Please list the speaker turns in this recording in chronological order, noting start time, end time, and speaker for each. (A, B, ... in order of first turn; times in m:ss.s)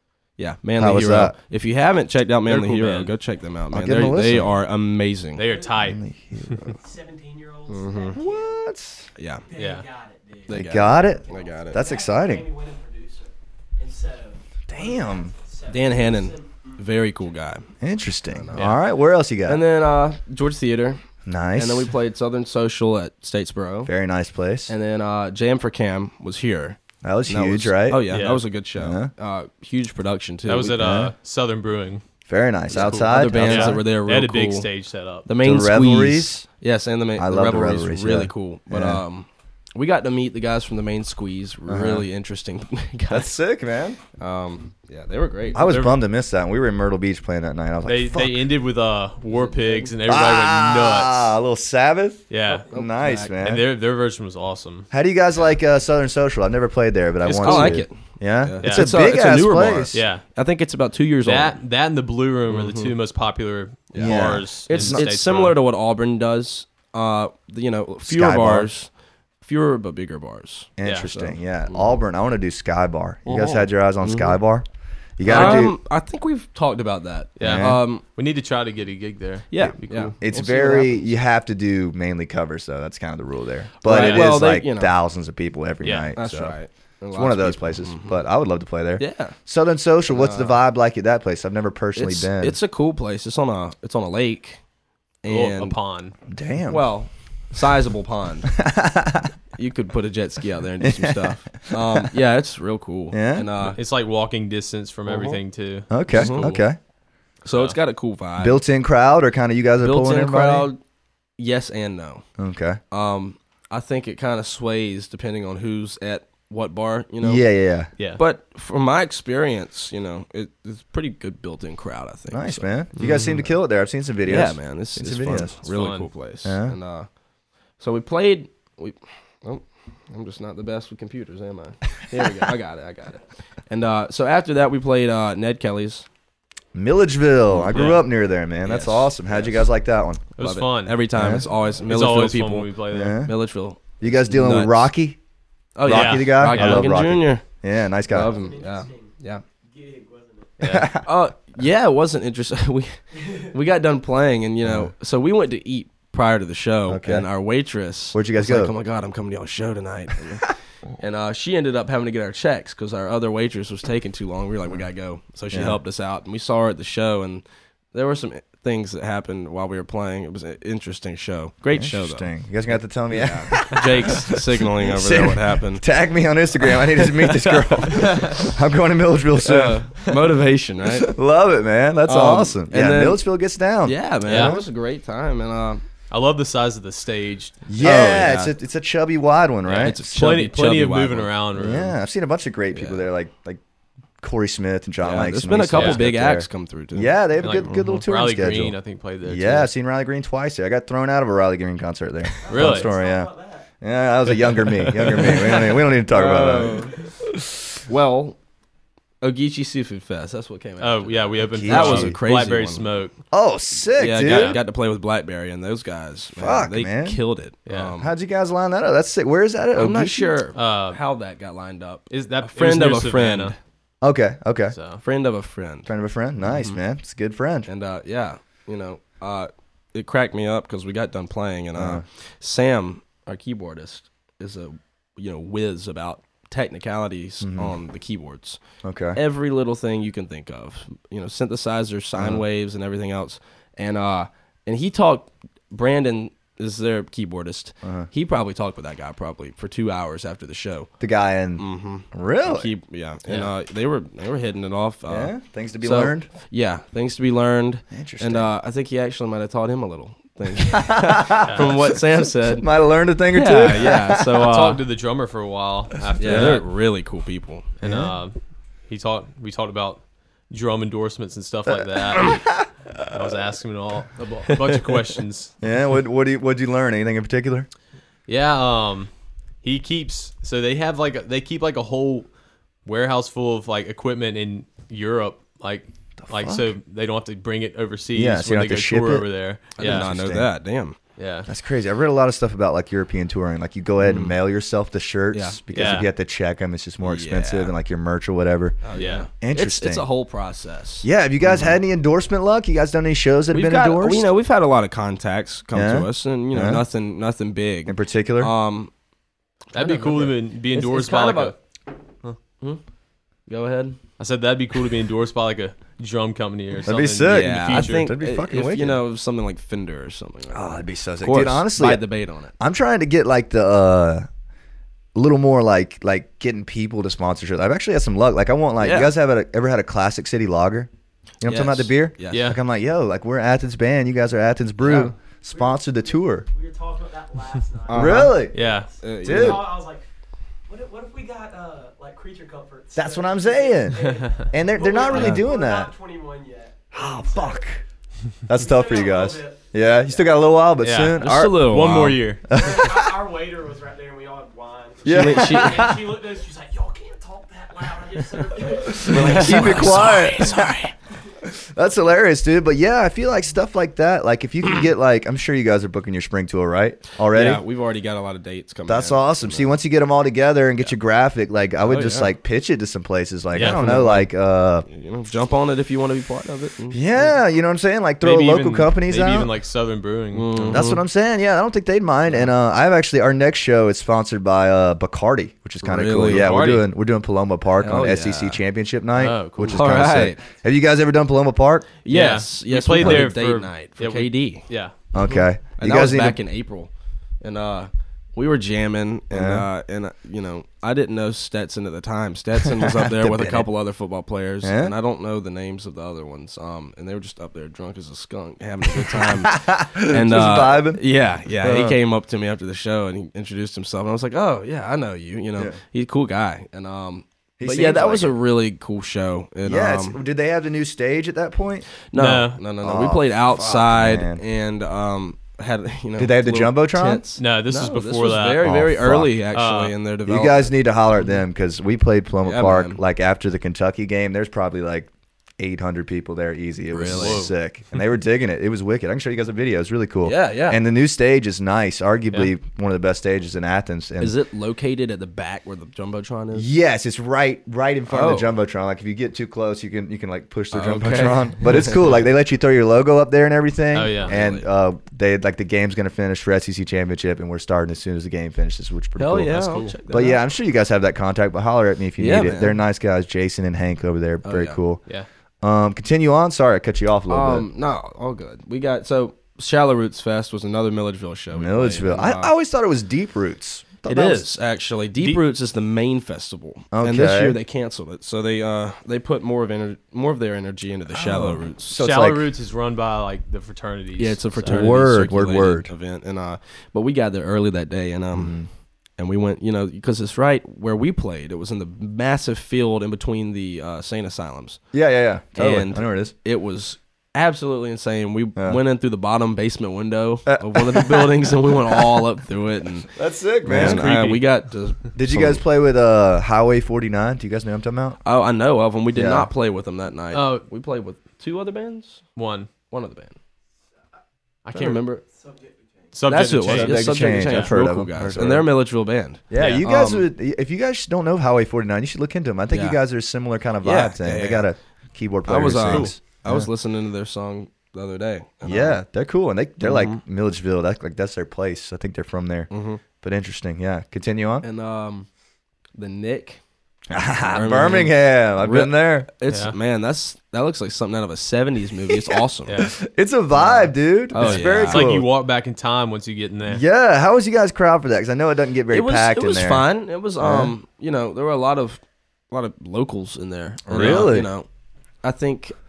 0:00.4-0:05.4 A
0:00.8-0:01.3 B
0:02.4-0:03.1 C
0:03.7-0:04.5 B
0:05.4-0:06.6 C
0:05.5-0:05.9 D
0:05.8-0:06.7 B
0:06.6-0:08.6 D
0:07.7-0:08.2 A
0:08.1-0:09.0 B
0:09.2-0:09.4 A
0:09.4-0:17.3 D
0:09.5-0:09.8 C
0:10.5-0:11.8 A
0:10.5-0:12.4 B
0:14.7-0:15.3 B
0:15.7-0:17.7 A
0:17.8-0:19.6 B
0:18.3-0:18.8 A
0:19.4-0:21.0 A
0:21.2-0:21.9 B
0:21.6-0:23.9 A
0:23.8-0:24.7 B
0:24.7-0:30.9 A
0:27.0-0:28.1 B
0:28.1-0:28.4 C
0:28.8-0:29.1 B
0:30.4-0:32.0 C
0:30.8-0:31.1 B
0:32.3-0:33.8 B
0:32.7-0:34.7 A
0:32.8-0:35.3 C
0:35.2-0:43.3 A
0:35.4-0:36.4 B
0:37.2-0:39.0 B
0:41.7-0:42.0 B
0:43.1-0:44.0 B
0:44.2-0:45.6 A
0:45.5-0:48.4 B
0:45.6-0:46.0 C
0:47.8-0:51.3 C
0:49.4-0:49.9 A
0:50.1-0:53.6 B
0:52.3-0:52.7 C
0:52.7-0:53.4 A
0:53.3-0:54.9 C
0:54.9-1:00.0 B
0:57.2-0:57.8 C
0:57.4-1:01.6 A
0:58.6-0:58.9 C
0:59.9-1:00.2 C
1:01.2-1:05.6 C
1:02.5-1:02.9 A
1:03.9-1:12.0 A
1:04.0-1:05.0 B
1:08.0-1:08.7 B
1:10.8-1:14.6 B
1:10.8-1:11.1 C
1:14.0-1:14.4 A
1:15.2-1:15.7 B
1:15.2-1:18.0 A
1:15.3-1:15.6 C
1:17.4-1:20.1 C
1:17.4-1:17.8 B
1:19.5-1:21.0 A
1:20.2-1:26.6 B
1:23.8-1:24.9 A
1:23.9-1:24.4 C
1:25.8-1:26.1 C
1:26.2-1:28.2 A
1:27.1-1:32.6 B
1:29.0-1:29.4 A
1:30.1-1:30.6 A
1:32.0-1:34.6 A
1:35.2-1:35.8 A
1:35.3-1:36.1 C
1:36.3-1:36.8 B
1:36.7-1:38.5 A
1:38.5-1:39.3 B
1:39.6-1:43.8 A
1:40.8-1:42.1 B
1:43.1-1:43.5 B
1:43.6-1:46.4 C
1:45.1-1:45.4 A
1:45.9-1:46.8 B
1:46.1-1:46.6 A
1:47.4-1:48.6 A
1:48.4-1:50.7 B
1:49.8-1:50.8 A
1:51.4-1:52.2 A
1:52.4-1:52.8 B
1:52.9-1:57.4 A
1:57.2-1:57.9 B
1:58.2-2:03.3 A
2:02.3-2:05.6 B
2:03.0-2:03.4 C
2:04.2-2:07.1 A
2:05.6-2:06.1 C
2:06.4-2:06.8 B
2:07.8-2:16.0 A
2:16.7-2:20.2 B
2:17.5-2:18.0 A
2:17.7-2:18.0 C
2:18.6-2:19.6 A
2:20.4-2:21.1 C
2:20.4-2:22.7 A
2:21.1-2:21.4 B
2:21.8-2:23.2 C
2:22.9-2:23.3 B
2:23.2-2:24.9 A
2:24.0-2:25.2 B
2:25.8-2:27.4 A
2:25.8-2:28.3 B
2:25.8-2:26.9 C
2:28.1-2:29.4 A
2:28.2-2:30.6 D
2:30.6-2:30.9 C
2:30.6-2:31.1 B
2:31.0-2:52.3 A
2:33.1-2:33.5 D
2:34.6-2:34.9 B
2:36.9-2:37.3 B
2:38.1-2:38.7 B
2:45.5-2:45.8 B
2:51.7-2:59.8 B
2:53.1-2:55.8 A
2:56.9-2:58.3 A
2:57.9-2:58.4 C
2:59.3-3:01.1 A
3:00.9-3:04.6 B
3:02.0-3:03.2 A
3:03.8-3:05.8 A
3:04.2-3:04.6 C
3:06.1-3:07.7 C
3:07.7-3:10.1 B
3:07.8-3:08.5 A
3:09.6-3:12.0 C
3:09.8-3:11.3 A
3:11.6-3:13.6 B
3:12.7-3:13.0 A
3:14.2-3:23.3 B
3:15.0-3:17.2 A
3:15.7-3:16.0 C
3:17.4-3:19.7 C
3:22.4-3:23.7 D
3:22.5-3:22.9 C
3:23.8-3:27.8 B
3:24.9-3:25.4 C
3:25.0-3:27.0 A
3:27.9-3:28.4 A
3:29.2-3:32.9 A
3:30.8-3:33.1 C
3:31.4-3:32.2 B
3:33.3-3:34.6 B
3:34.0-3:38.1 A
3:34.2-3:34.6 C
3:36.4-3:37.2 B
3:37.7-3:37.9 C
3:38.0-3:40.3 B
3:39.7-3:43.5 A
3:40.5-3:41.0 C
3:42.1-3:43.5 C
3:44.0-3:44.7 B
3:44.7-3:45.0 C
3:45.0-3:45.9 A
3:45.9-3:47.7 B
3:47.6-3:58.6 A
3:51.8-3:52.0 B
3:57.4-3:57.7 B
3:58.8-3:59.2 B
3:59.1-4:10.9 A
4:02.2-4:02.4 B
4:07.8-4:08.1 B
4:11.0-4:12.7 B
4:11.6-4:22.7 A
4:15.1-4:16.3 B
4:17.9-4:18.5 B
4:20.6-4:24.5 B
4:21.4-4:21.7 C
4:23.3-4:24.8 A
4:24.2-4:26.6 C
4:26.2-4:27.7 A
4:26.3-4:26.5 B
4:27.8-4:28.3 C
4:27.8-4:28.1 B
4:28.9-4:35.5 C
4:32.1-4:33.1 B
4:35.6-4:37.7 B
4:38.3-4:39.1 C
4:39.6-4:42.3 C
4:42.8-4:50.0 C
4:46.2-4:46.7 B
4:48.1-4:49.2 B
4:49.8-4:51.0 A
4:49.8-4:50.5 B
4:51.2-4:51.5 C
4:51.5-4:58.8 B
4:54.0-4:54.4 A
4:55.3-4:55.6 A
4:55.7-4:56.1 C
4:57.0-4:57.7 A
4:58.8-5:01.8 A
4:58.9-4:59.3 C
4:59.3-5:00.0 B
5:01.0-5:04.3 B
5:03.5-5:08.9 A
5:05.7-5:06.8 B
5:07.9-5:08.5 B
5:09.7-5:11.5 A
5:09.7-5:11.6 C
5:13.5-5:14.0 A
5:14.2-5:18.1 C
5:16.8-5:19.0 B
5:17.2-5:22.5 A
5:20.5-5:22.0 B
5:22.6-5:24.3 B
5:25.1-5:30.9 B
5:28.8-5:29.1 A
5:31.4-5:36.4 B
5:31.4-5:32.5 A
5:32.3-5:32.6 C
5:34.8-5:35.1 A
5:35.5-5:40.0 D
5:37.9-5:38.4 A
5:37.9-5:38.5 B
5:38.5-5:38.9 C
5:39.0-5:39.7 A
5:39.2-5:39.7 B
5:40.7-5:47.7 D
5:42.9-5:45.9 B
5:45.1-5:45.4 A
5:46.9-5:47.8 B
5:48.5-5:53.1 B
5:48.5-5:50.4 D
5:50.8-5:52.6 C
5:51.1-5:52.2 A
5:52.5-6:00.6 D
5:55.0-5:56.0 B
5:55.0-5:55.9 A
5:58.8-6:00.9 B
5:59.0-6:00.9 A
6:01.4-6:07.6 B
6:07.3-6:09.7 A
6:08.9-6:14.8 B
6:11.8-6:12.3 A
6:13.5-6:13.9 C
6:13.6-6:14.3 A
6:14.8-6:17.4 A
6:16.9-6:19.5 B
6:18.2-6:20.8 C
6:20.3-6:21.0 A
6:20.7-6:31.9 B
6:25.8-6:26.6 A
6:26.2-6:26.9 C
6:27.8-6:28.6 A
6:29.1-6:30.1 C
6:29.6-6:30.4 A
6:32.0-7:00.2 A
6:32.1-6:34.9 C
6:33.0-6:33.2 B
6:35.1-6:36.4 B
6:39.3-6:39.6 B
6:42.6-6:43.7 B
6:44.6-6:44.9 B
6:49.0-6:51.0 B
6:51.6-6:52.0 B
6:57.6-6:58.3 B
6:59.6-7:01.9 B
7:02.1-7:10.7 A
7:02.1-7:02.6 C
7:02.8-7:04.4 B
7:06.2-7:07.2 B
7:07.4-7:08.8 C
7:08.6-7:09.3 B
7:09.5-7:09.9 C
7:10.2-7:24.3 B
7:12.4-7:13.0 A
7:16.9-7:17.4 A
7:17.1-7:17.5 C
7:20.2-7:20.8 A
7:24.2-7:26.7 A
7:26.5-7:45.0 B
7:28.1-7:28.5 A
7:30.7-7:32.2 A
7:33.9-7:34.3 C
7:34.2-7:34.7 A
7:39.2-7:40.4 A
7:39.5-7:39.9 C
7:42.2-7:42.8 A
7:44.4-7:44.8 A
7:45.6-7:47.7 B
7:47.3-7:52.5 A
7:51.5-7:54.4 B
7:54.0-8:02.0 A
7:56.9-7:57.6 B
8:01.1-8:02.5 B
8:01.9-8:05.0 C
8:04.2-8:08.6 A
8:04.6-8:05.9 B
8:08.3-8:08.7 B
8:09.2-8:14.8 A
8:14.9-8:16.3 B
8:15.6-8:23.1 A
8:20.5-8:22.2 B
8:23.1-8:24.2 B
8:23.6-8:25.6 A
8:23.7-8:24.4 C
8:25.2-8:28.2 B
8:28.2-8:32.2 A
8:29.1-8:29.5 B
8:30.3-8:30.6 C
8:32.4-8:32.7 C
8:32.9-8:33.4 A
8:34.6-8:35.0 C
8:34.7-8:35.2 A
8:35.3-8:36.1 D
8:36.1-8:37.7 C
8:36.2-8:40.3 A
8:36.6-8:38.7 B
8:39.5-8:46.7 B
8:39.5-8:39.9 C
8:42.7-8:43.0 A
8:43.8-8:44.6 A
8:45.5-8:49.0 A
8:45.8-8:46.1 C
8:48.6-8:52.7 B
8:49.8-8:50.2 A
8:52.7-8:53.0 A
8:53.2-8:54.6 B
8:54.6-8:55.3 A
8:56.0-8:56.6 A
8:57.1-8:59.3 B
8:57.4-9:02.8 A
8:59.5-8:59.7 C
9:02.1-9:05.3 B
9:02.7-9:02.9 C
9:03.5-9:05.1 A
9:04.4-9:06.8 C
9:06.6-9:09.8 B
9:08.9-9:12.0 A
9:10.4-9:10.7 B
9:12.5-9:14.7 A
9:13.9-9:14.5 B
9:13.9-9:14.3 C
9:15.2-9:15.8 A